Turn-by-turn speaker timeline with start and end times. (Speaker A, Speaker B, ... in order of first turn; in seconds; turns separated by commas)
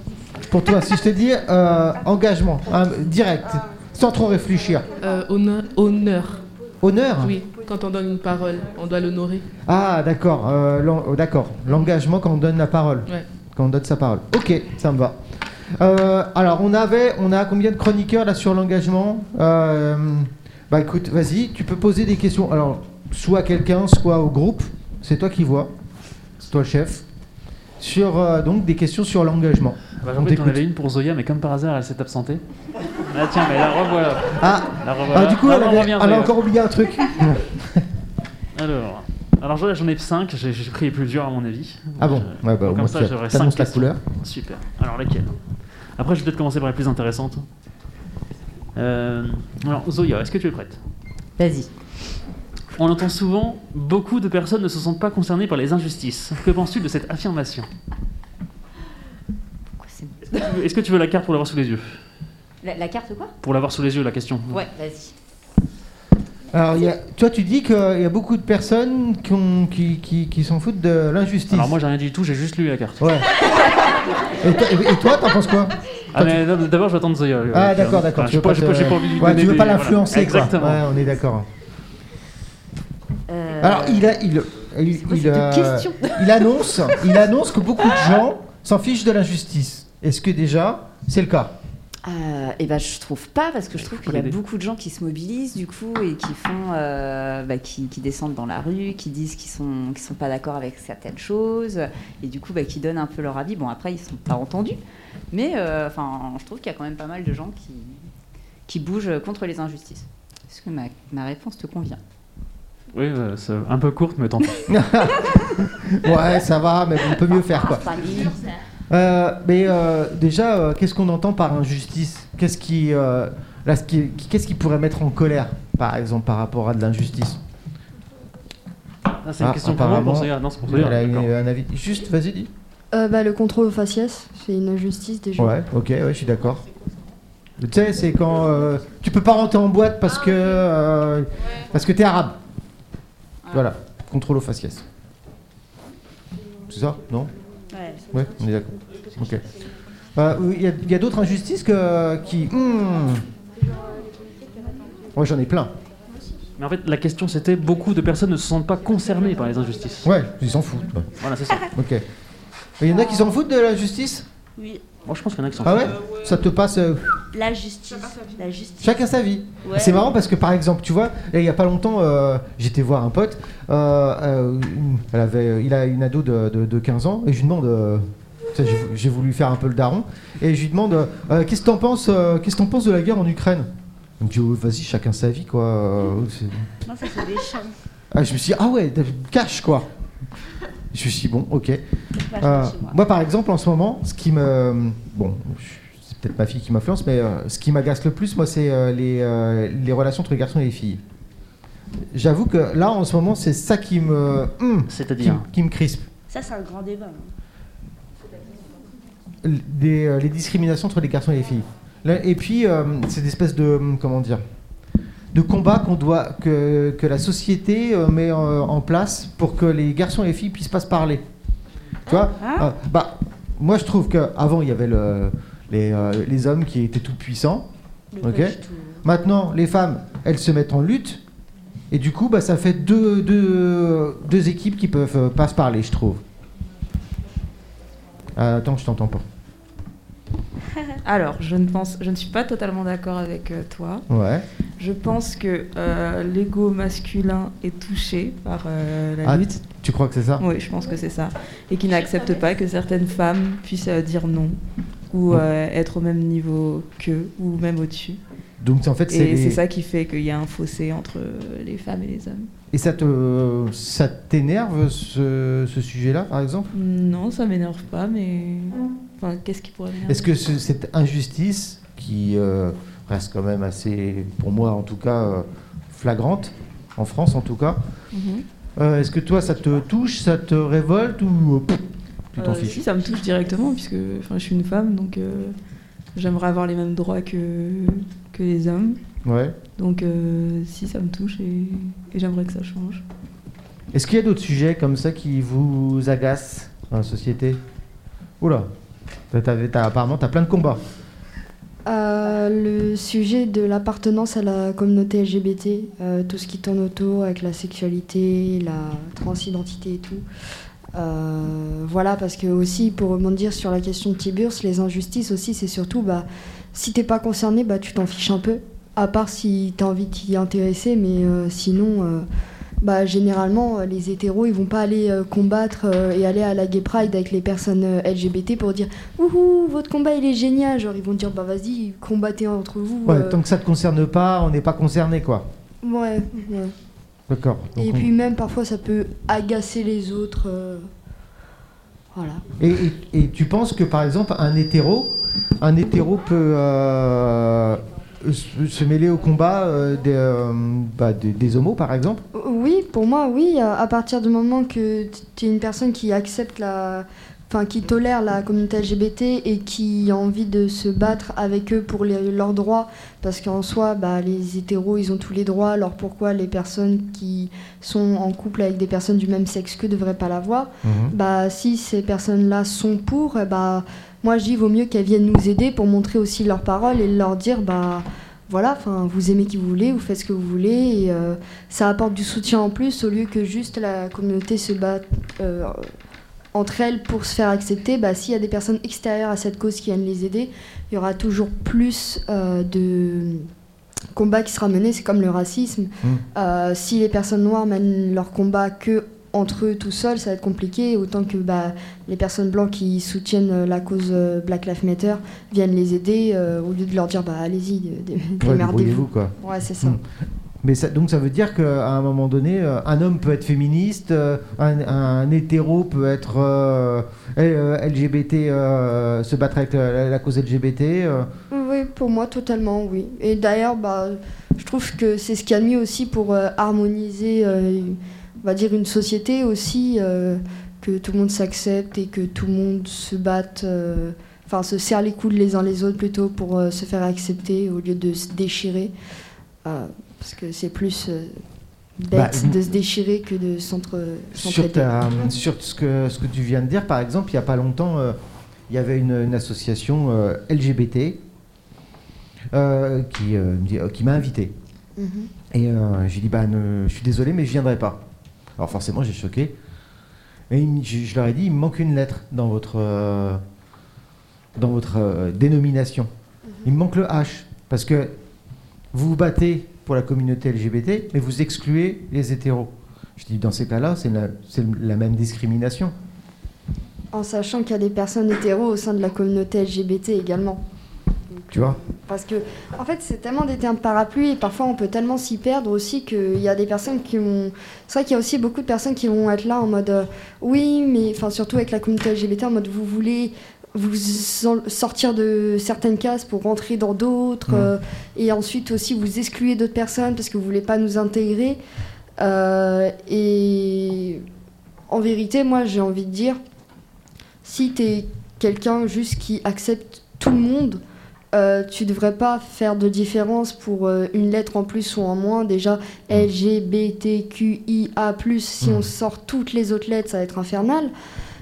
Speaker A: 0.5-4.9, Speaker B: 5.0-6.4, Speaker A: 6.8-7.3, Speaker B: 7.2-9.4, Speaker A: 9.7-15.2, Speaker A: 15.7-25.7, Speaker A: 26.4-27.0, Speaker A: 27.8-30.6, Speaker C: 30.0-32.4, Speaker C: 33.0-36.4, Speaker A: 34.4-37.8, Speaker C: 38.6-45.3, Speaker A: 42.0-44.0, Speaker C: 46.0-47.4, Speaker C: 48.8-50.8, Speaker D: 51.4-51.7, Speaker C: 52.8-57.7, Speaker D: 59.8-60.5, Speaker C: 60.3-62.0, Speaker D: 62.6-63.3, Speaker C: 63.4-64.7, Speaker D: 64.5-65.1, Speaker A: 66.5-71.8, Speaker C: 71.5-73.0, Speaker A: 73.0-73.3, Speaker A: 74.4-76.4, Speaker C: 76.1-80.8, Speaker A: 77.5-81.5, Speaker D: 83.3-84.1, Speaker A: 83.6-91.5, Speaker D: 84.9-86.1, Speaker D: 92.0-104.8, Speaker C: 93.7-94.4, Speaker D: 105.3-108.0, Speaker D: 108.7-112.0, Speaker C: 112.9-114.7, Speaker A: 114.7-118.2, Speaker D: 117.5-118.4, Speaker A: 118.9-127.4, Speaker C: 129.2-131.3, Speaker A: 129.4-132.5, Speaker E: 132.9-135.6, Speaker A: 135.4-136.6, Speaker A: 137.6-142.4, Speaker A: 143.5-144.8, Speaker A: 146.7-147.3, Speaker F: 147.7-148.1, Speaker A: 148.1-149.4, Speaker A: 150.2-153.2, Speaker A: 155.1-155.7, Speaker C: 156.6-160.1, Speaker A: 160.1-161.1, Speaker C: 161.2-161.7, Speaker A: 161.7-162.0, Speaker A: 162.8-164.3, Speaker F: 164.6-164.8, Speaker C: 165.1-166.0, Speaker A: 165.6-167.2, Speaker F: 167.3-169.0, Speaker A: 168.8-183.7, Speaker F: 169.6-170.0, Speaker A: 184.2-186.7, Speaker F: 186.8-187.7, Speaker A: 188.1-189.9, Speaker A: 190.9-191.8, Speaker F: 192.2-193.0, Speaker A: 192.4-201.0, Speaker A: 202.1-206.1, Speaker C: 204.9-205.4, Speaker F: 206.3-207.3, Speaker A: 209.4-214.4, Speaker A: 215.3-221.2, Speaker F: 222.1-222.7, Speaker A: 222.1-227.7, Speaker F: 228.1-229.0, Speaker A: 228.2-231.2, Speaker A: 231.9-236.2, Speaker A: 238.4-239.2, Speaker G: 241.1-244.0, Speaker A: 244.1-244.4, Speaker G: 244.8-249.5, Speaker A: 249.2-250.4, Speaker G: 250.4-254.6, Speaker G: 255.1-258.2, Speaker A: 258.6-259.6, Speaker G: 259.1-262.5, Speaker A: 262.7-266.7, Speaker G: 266.7-270.3, Speaker A: 270.1-277.8, Speaker G: 278.1-278.4, Speaker A: 278.8-282.8, Speaker G: 282.4-285.6, Speaker G: 286.1-289.0, Speaker A: 289.2-289.6, Speaker G: 289.8-293.0, Speaker A: 293.9-297.6, Speaker A: 298.4-298.7, Speaker A: 299.3-300.8, Speaker E: 301.9-310.2, Speaker E: 310.9-322.3, Speaker E: 322.8-333.4, Speaker A: 333.1-335.5, Speaker E: 335.8-336.8, Speaker A: 337.3-338.1, Speaker E: 337.8-340.9, Speaker E: 342.1-342.5, Speaker A: 342.6-352.2, Speaker E: 352.3-385.9, Speaker A: 370.9-371.1, Speaker E: 386.5-393.5, Speaker E: 394.1-410.0, Speaker A: 408.4-410.0, Speaker A: 410.6-421.3, Speaker E: 421.5-438.9, Speaker E: 439.6-441.4, Speaker E: 442.0-445.2, Speaker A: 442.1-442.6, Speaker A: 444.4-448.2, Speaker A: 448.7-451.2, Speaker A: 452.5-454.5, Speaker E: 455.0-455.3, Speaker A: 455.5-458.0, Speaker A: 458.6-459.5, Speaker A: 460.5-463.4, Speaker A: 464.6-466.1, Speaker A: 466.6-468.1, Speaker A: 468.9-475.9, Speaker E: 477.1-480.6, Speaker E: 481.3-501.6, Speaker A: 481.5-481.8, Speaker E: 502.2-504.2, Speaker E: 504.9-506.4, Speaker E: 507.4-510.8, Speaker E: 511.3-520.9, Speaker A: 518.6-518.9